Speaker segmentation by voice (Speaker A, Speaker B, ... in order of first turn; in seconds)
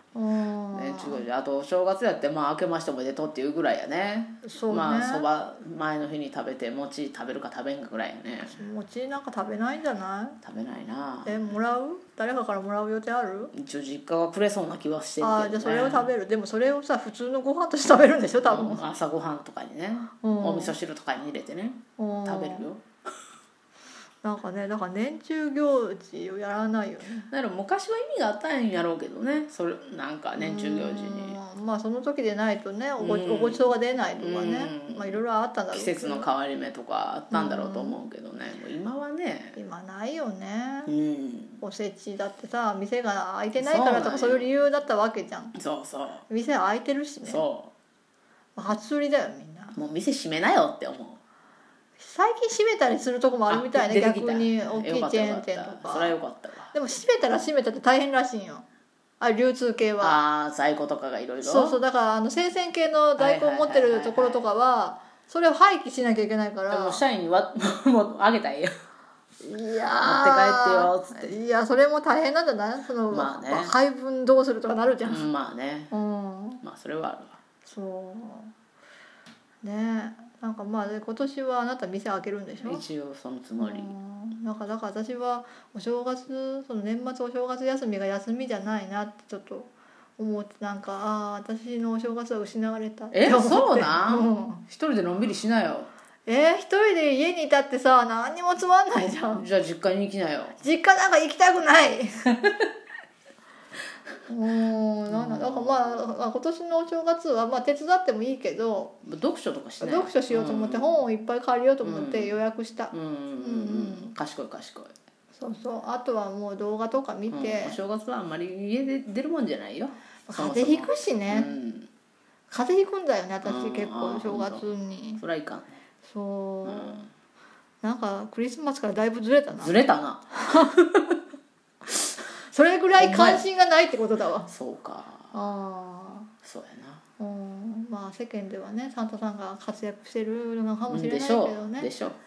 Speaker A: 0.1-1.2, 4.4-5.2, 8.5-10.4, 11.2-13.5, 15.2-18.8, 20.2-20.7, 22.0-22.7, 24.2-27.3, 30.4-36.3, 37.3-38.0, 39.5-40.9, 41.6-45.5, 46.3-47.4, 48.6-49.7, 52.0-56.2, 56.7-58.6, 59.2-60.2, 61.4-67.0, 69.4-75.2, 75.9-76.6, 77.6-78.5, 79.6-82.8, 83.6-94.6, 96.3-99.4, 100.6-102.4, 104.3-108.9, 109.8-114.1, 115.3-117.8, 120.3-121.5, 122.5-125.2, 126.0-127.0, 127.8-129.7, 130.3-130.7, 132.5-134.5, 135.3-136.3, 137.2-141.9
Speaker B: 0.7-8.6, 10.4-11.4, 13.5-16.1, 18.4-22.8, 27.3-31.4, 33.0-35.2, 35.7-39.5, 40.9-41.6, 43.6-44.5, 45.5-46.2, 47.2-47.7, 49.7-51.2, 53.5-56.7, 60.0-61.8, 63.2-64.4, 66.7-68.7, 70.0-71.3, 73.1-73.7, 75.0-75.9, 76.6-77.4, 82.6-83.9, 93.1-95.9, 99.3-100.5, 105.1-106.1, 109.0-111.0, 111.8-112.4, 112.9-114.9, 117.3-121.9, 123.4-124.7, 125.2-125.8, 126.6-127.1, 129.6-131.2, 133.0-133.4, 134.5-135.3, 136.4-137.0, 140.9-142.2